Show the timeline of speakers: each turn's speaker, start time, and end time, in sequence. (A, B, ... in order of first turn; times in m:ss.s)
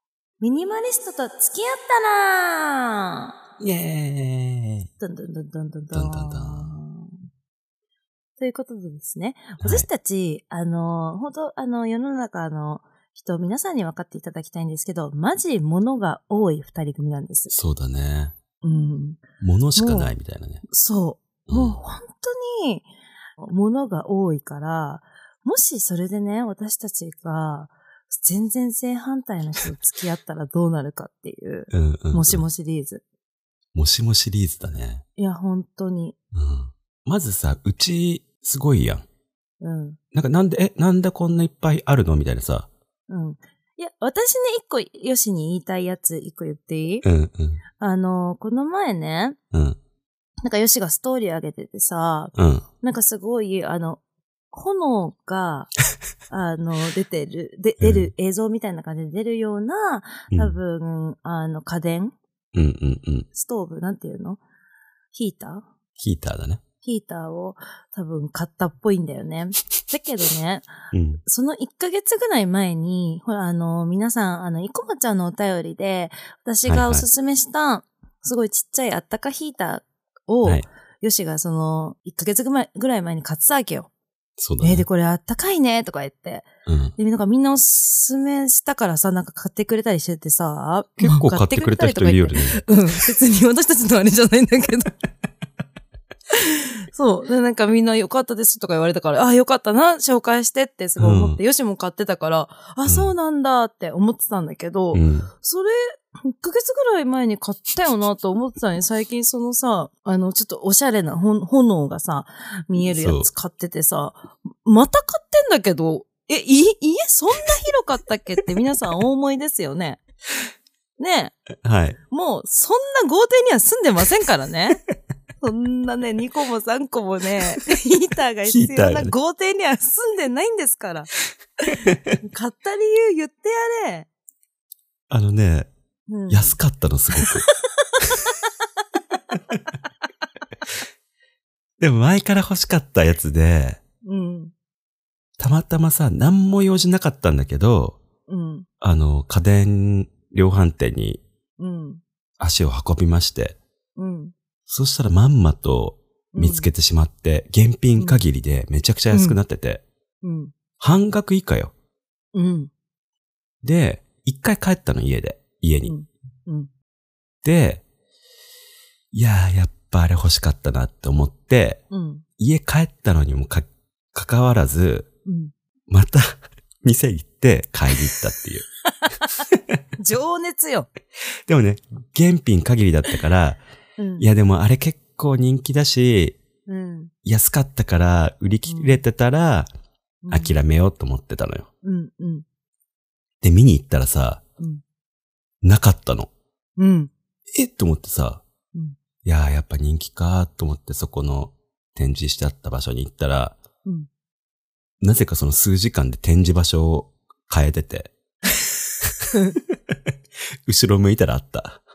0:00.4-0:03.3 A
0:03.6-0:04.9 B
0:05.0-0:07.1 A
0:05.9-0:06.8 B
0:08.4-0:17.5 A
0:09.6-0:09.9 B
0:17.5-0:18.3 B
0:18.6-0:19.2 A
0:19.4-0:20.6 B
0:19.8-0:20.1 A
0:20.7-0:22.9 A
0:21.5-0:21.8 B
0:23.4-0:33.0 A
0:31.7-0:32.4 B
0:33.7-0:35.0 B
0:35.2-0:36.2 A
0:36.3-0:39.0 B
0:39.6-0:40.0 A
0:40.1-0:42.7 B
0:43.1-0:47.0 A
0:47.0-0:47.6 B
0:47.8-0:49.4 A
0:49.5-0:49.8 B
0:50.4-0:55.7 A
0:52.4-0:52.6 B
0:56.3-1:02.1 A
0:57.8-0:58.1 B
1:00.3-1:00.6 B
1:02.5-1:03.3 B
1:03.3-1:04.4 A
1:05.1-1:05.6 A
1:06.0-1:06.6 B
1:06.8-1:10.7 A
1:10.9-1:11.2 B
1:11.2-1:23.9 A
1:16.6-1:17.0 B
1:24.4-1:24.8 B
1:24.6-1:34.9 A
1:26.6-1:26.9 B
1:31.0-1:32.6 B
1:36.3-2:00.0 A
1:41.0-1:41.4 B
1:42.8-1:43.1 B
1:44.9-1:45.3 B
1:52.8-1:53.3 B
2:01.0-2:01.4 A
2:01.6-2:02.0 B
2:02.1-2:04.8 A
2:05.4-2:11.1 A
2:08.4-2:09.1 B
2:11.7-2:14.1 A
2:11.8-2:12.1 B
2:15.1-2:15.7 B
2:16.1-2:16.6 A
2:16.3-2:17.4 B
2:17.2-2:18.4 A
2:21.8-2:23.8 B
2:24.0-2:24.5 A
2:25.4-2:28.0 B
2:28.3-2:28.7 A
2:28.8-2:31.2 B
2:31.6-2:32.0 A
2:32.4-2:33.6 B
2:34.0-2:34.3 A
2:34.7-2:39.8 B
2:36.3-2:36.7 A
2:39.1-2:39.4 A
2:40.2-2:40.5 A
2:40.8-2:41.7 B
2:42.3-2:42.7 A
2:43.6-2:45.9 B
2:45.8-2:46.7 A
2:47.4-2:47.8 B
2:49.1-2:51.8 B
2:51.9-2:52.2 A
2:52.4-2:55.1 B
2:55.2-2:55.5 A
2:55.9-2:58.6 B
2:59.0-2:59.4 A
2:59.5-2:59.8 B
3:00.0-3:00.9 A
3:01.5-3:03.6 B
3:04.0-3:04.3 A
3:04.2-3:06.4 B
3:06.7-3:07.1 A
3:07.2-3:09.7 B
3:08.7-3:09.0 A
3:10.2-3:10.6 A
3:10.3-3:11.7 B
3:11.8-3:12.4 A
3:13.4-3:14.4 B
3:15.6-3:16.3 B
3:16.8-3:17.1 A
3:17.5-3:18.4 B
3:19.2-3:23.6 B
3:25.0-3:28.1 B
3:30.6-3:31.8 B